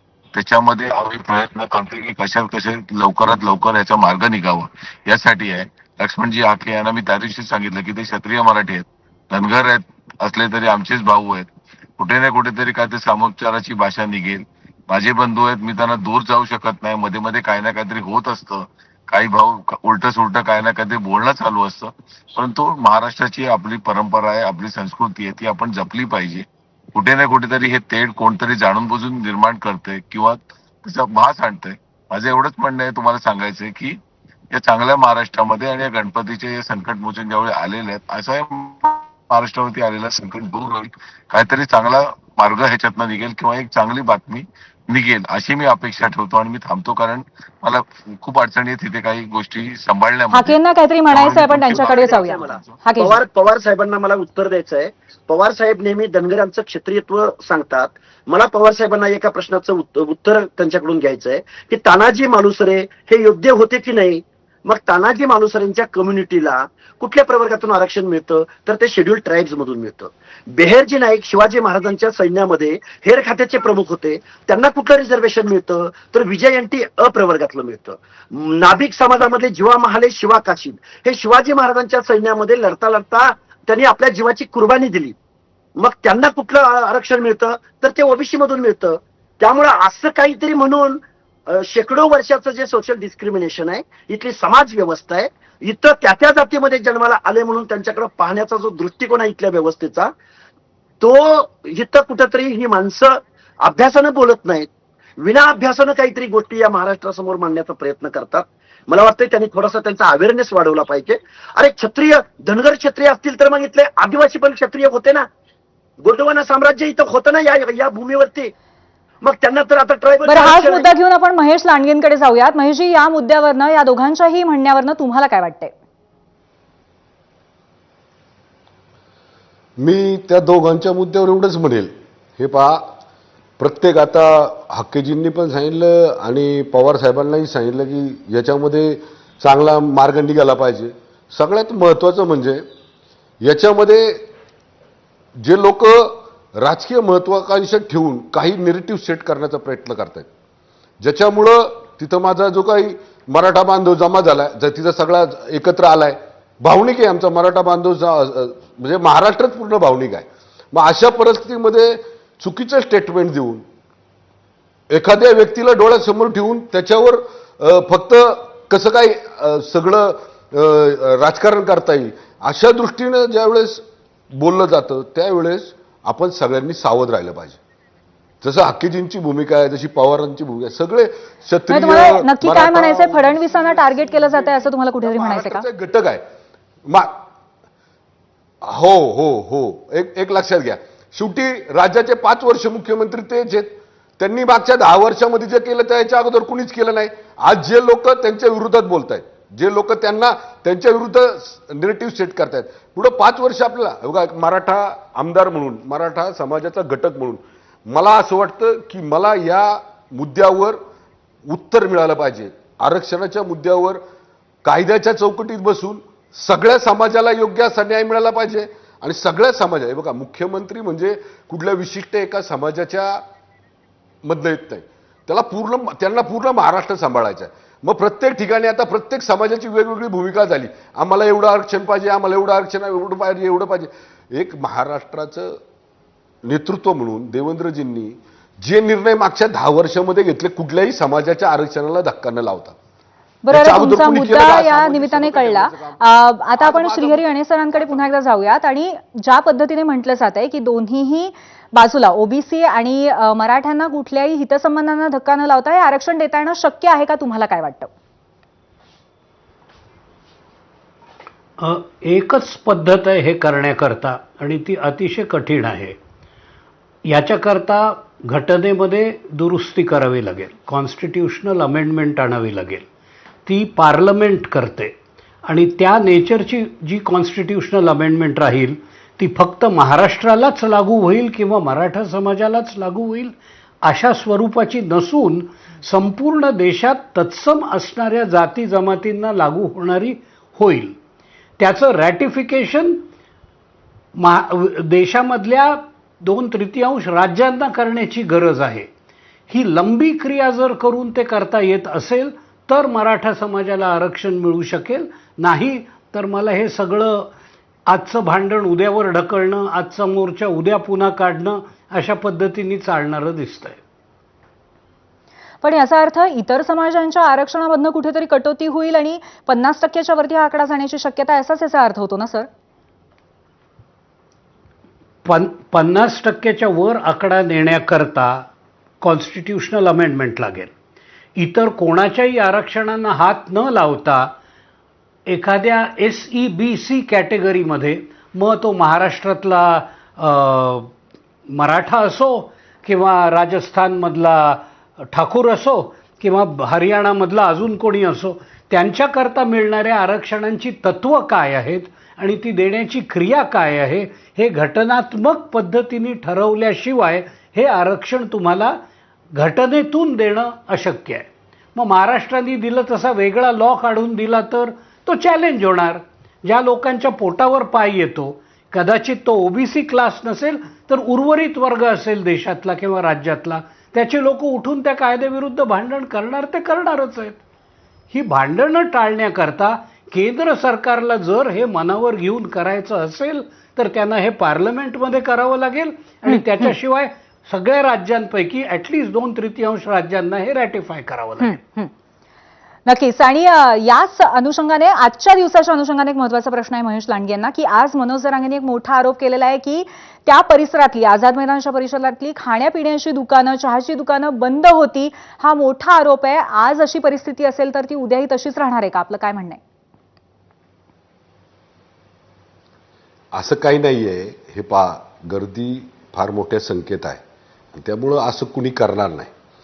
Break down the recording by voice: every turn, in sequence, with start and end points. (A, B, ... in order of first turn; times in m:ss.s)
0:00.3-0:34.0 A
0:34.5-0:50.6 A
0:50.3-0:53.2 B
0:51.1-0:52.8 A
0:51.7-1:25.2 C
1:25.8-1:31.0 C
1:31.5-1:40.1 C
1:41.0-1:44.7 C
1:45.2-1:55.2 C
1:56.0-1:58.5 C
1:59.2-2:00.9 C
2:00.3-2:05.7 B
2:09.8-2:12.9 D
2:13.6-2:22.6 D
2:23.4-2:24.3 D
2:25.4-2:30.3 D
2:31.0-2:43.6 D
2:44.9-2:57.6 D
2:58.4-3:06.2 D
3:01.7-3:05.6 B
3:06.9-3:07.1 D
3:08.6-3:30.8 D
3:31.4-3:34.0 D
3:34.6-3:43.2 D
3:44.2-3:55.6 D
3:56.4-4:02.8 D
4:03.4-4:17.9 B
4:03.5-4:06.0 D
4:06.6-4:08.0 D
4:21.6-4:26.0 E
4:27.1-4:32.8 E
4:33.4-4:34.9 E
4:35.4-4:50.9 E
4:51.6-4:53.0 E
4:54.2-4:58.9 E
4:59.5-5:07.3 E
5:07.9-5:13.8 E
5:15.6-5:22.5 B
5:25.2-5:28.4 E
5:29.0-5:30.7 E
5:31.4-5:34.3 E
5:35.3-5:40.9 E
5:41.5-5:58.8 E
5:59.4-6:17.4 E
6:18.1-6:31.6 E
6:26.3-6:26.7 B
6:31.4-6:31.9 B
6:32.8-6:49.6 B
6:53.3-6:57.2 D
6:57.7-6:59.3 D